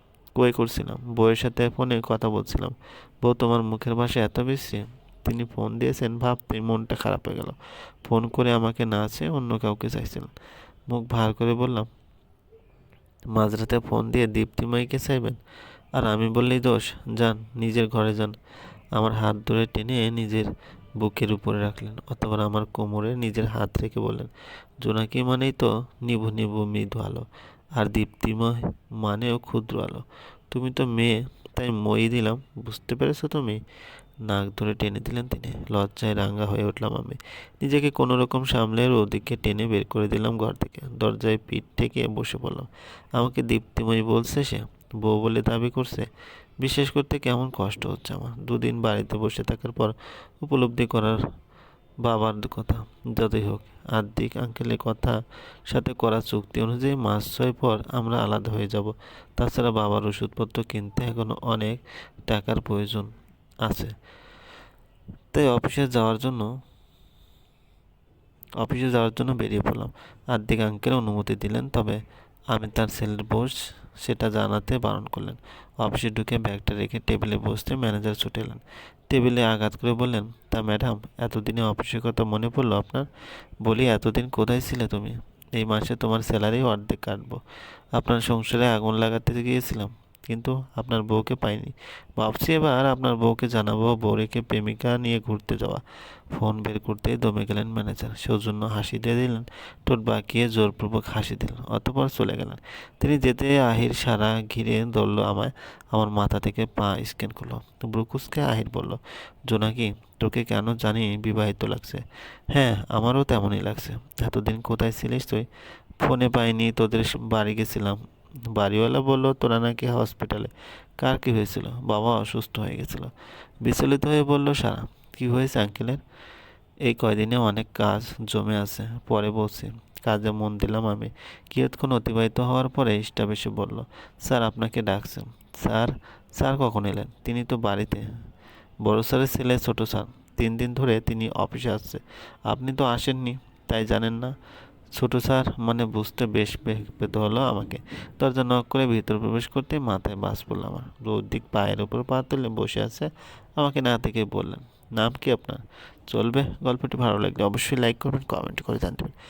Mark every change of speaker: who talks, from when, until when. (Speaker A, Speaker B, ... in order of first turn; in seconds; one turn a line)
Speaker A: 0.3-10.3
Speaker A: 10.9-11.9
Speaker A: 13.3-15.4
Speaker A: 15.9-18.4
Speaker A: 18.9-20.5
Speaker A: 21.0-24.3
Speaker A: 24.8-33.6
Speaker A: 34.2-46.1
Speaker A: 46.6-51.2
Speaker A: 52.0-63.1
Speaker A: 63.6-63.9
Speaker A: 65.3-66.5
Speaker A: 68.6-83.1
Speaker A: 83.6-87.4
Speaker A: 87.9-115.5
Speaker A: 116.0-118.0
Speaker A: 118.5-126.0
Speaker A: 126.8-138.1
Speaker A: 138.8-144.3
Speaker A: 144.9-159.1